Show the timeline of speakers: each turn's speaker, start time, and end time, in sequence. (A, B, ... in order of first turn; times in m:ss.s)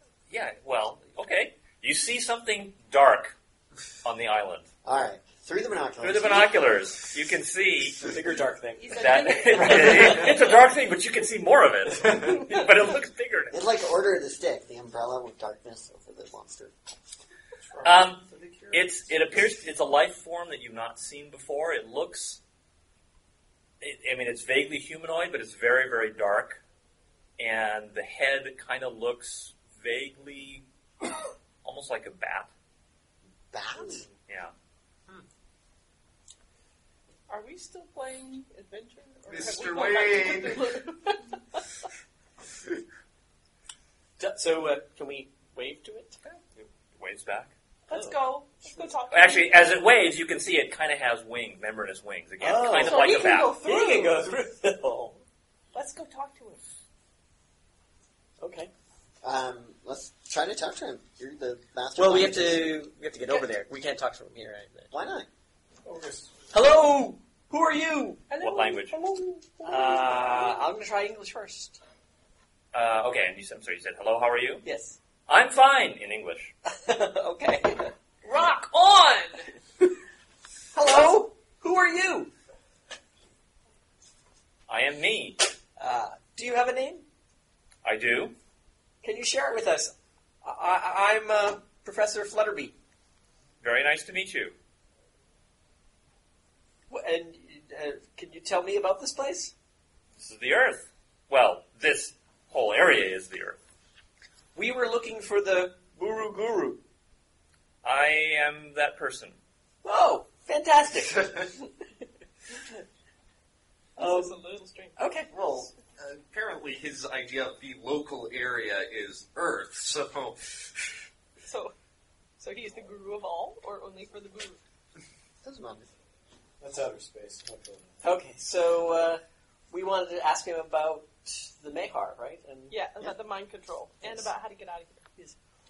0:00.3-0:03.3 A
0:04.0-0:04.7 A
0:04.8-0:06.6 B
0:06.0-0:08.1 A
0:08.0-0:10.3 C
0:08.8-0:10.5 D
0:08.9-0:13.6 A
0:12.2-0:12.7 D
0:13.5-0:16.7 B
0:17.7-0:18.7 E
0:17.8-0:22.4 A
0:23.8-0:26.6 A
0:27.4-0:30.6 A
0:31.6-0:32.5 A
0:33.5-0:34.0 B
0:34.3-0:34.5 A
0:37.3-0:41.6 D
0:39.3-0:40.8 F
0:44.2-0:46.2 C
0:46.2-0:47.5 A
0:47.9-0:49.7 D
0:47.9-0:48.2 C
0:49.1-0:53.6 A
0:52.4-0:55.2 C
0:52.7-0:54.3 D
0:55.7-0:56.6 D
0:58.4-0:58.7 C
0:59.2-1:02.8 B
1:02.0-1:04.9 C
1:04.9-1:05.3 B
1:05.8-1:06.3 E
1:06.5-1:08.3 C
1:08.3-1:10.6 D
1:08.4-1:09.0 A
1:09.6-1:11.8 C
1:12.7-1:14.6 A
1:14.6-1:14.9 C
1:15.3-1:16.5 A
1:16.7-1:17.9 C
1:18.2-1:19.5 D
1:20.7-1:22.3 C
1:24.7-1:25.4 A
1:25.8-1:27.0 C
1:27.8-1:28.4 A
1:29.0-1:32.8 C
1:33.6-1:34.5 A
1:36.9-1:39.5 C
1:40.2-1:43.6 A
1:44.5-1:46.8 C
1:47.8-1:49.4 A
1:49.8-1:51.5 C
1:54.0-1:55.0 D
1:54.0-1:54.4 C
1:55.0-1:55.3 C
1:55.3-2:00.9 F
2:01.4-2:01.7 D
2:02.4-2:04.6 D
2:05.4-2:05.9 B
2:06.6-2:08.0 E
2:08.0-2:13.1 C
2:12.7-2:15.1 D
2:14.0-2:14.3 C